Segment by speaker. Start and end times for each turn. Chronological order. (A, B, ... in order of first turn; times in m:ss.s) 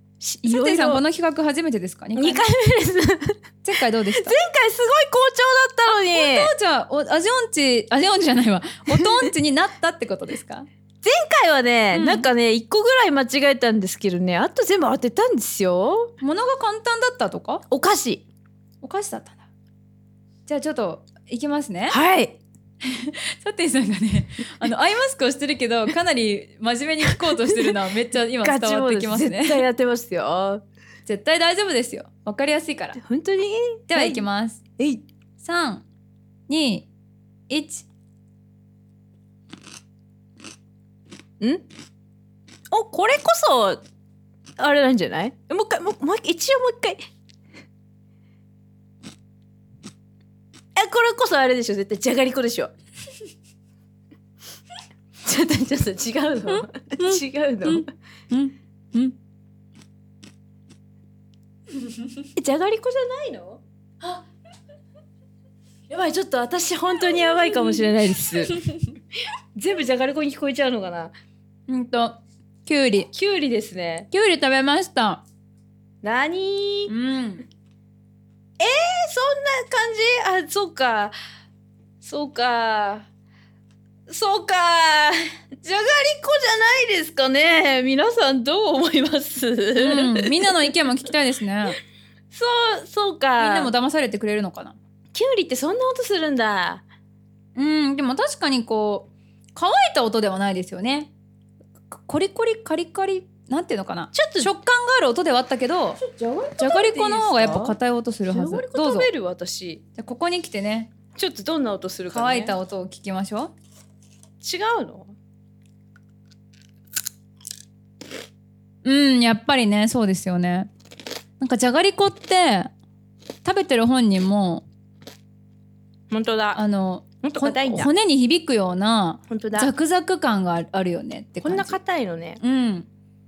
0:00.2-0:01.0 A
0:00.4-0:02.4 B
0:02.2-0:03.4 A
0:03.6-0:04.4 B
0:04.1-0:06.5 A
0:05.9-0:10.7 B
0:11.0-0:16.1 A
0:11.9-0:12.3 B
0:16.2-0:17.6 B
0:17.7-0:18.2 A
0:18.8-0:19.4 B
0:20.5-0:22.0 B
0:21.9-0:22.4 A
0:22.9-0:29.6 B
0:27.1-0:27.7 A
0:28.4-0:30.6 A
0:31.0-0:33.0 B
0:33.0-0:34.2 A
0:33.9-0:34.6 B
0:34.8-0:35.0 A
0:35.4-0:35.8 B
0:36.5-0:36.9 B
0:37.5-0:37.9 B
0:41.4-0:41.6 A
0:42.7-0:43.8 A
0:44.6-0:47.0 A
0:50.8-0:52.7 A
0:55.2-0:57.9 A
0:56.5-0:59.2 B
1:02.4-1:04.2 A
1:05.9-1:08.6 A
1:09.5-1:11.1 A
1:11.7-1:13.1 B
1:13.1-1:14.1 A
1:14.1-1:15.2 B
1:16.0-1:16.9 A
1:16.9-1:17.4 B
1:18.6-1:21.1 A
1:22.0-1:23.0 A
1:24.1-1:30.3 A
1:29.8-1:31.8 B
1:32.3-1:33.7 A
1:33.4-1:34.8 B
1:35.1-1:36.8 A
1:37.5-1:41.1 B
1:41.9-1:46.0 B
1:44.1-1:44.5 A
1:46.0-1:47.8 A
1:46.6-1:49.1 B
1:48.3-1:49.8 A
1:50.0-1:50.9 B
1:51.1-1:52.5 A
1:52.1-1:53.5 B
1:54.4-1:55.1 A
1:58.8-2:00.7 B
2:01.4-2:02.7 B
2:03.4-2:04.6 B
2:06.1-2:06.6 A
2:06.5-2:11.8 B
2:07.2-2:07.9 A
2:09.3-2:09.7 A
2:11.4-2:12.4 A
2:12.4-2:12.9 B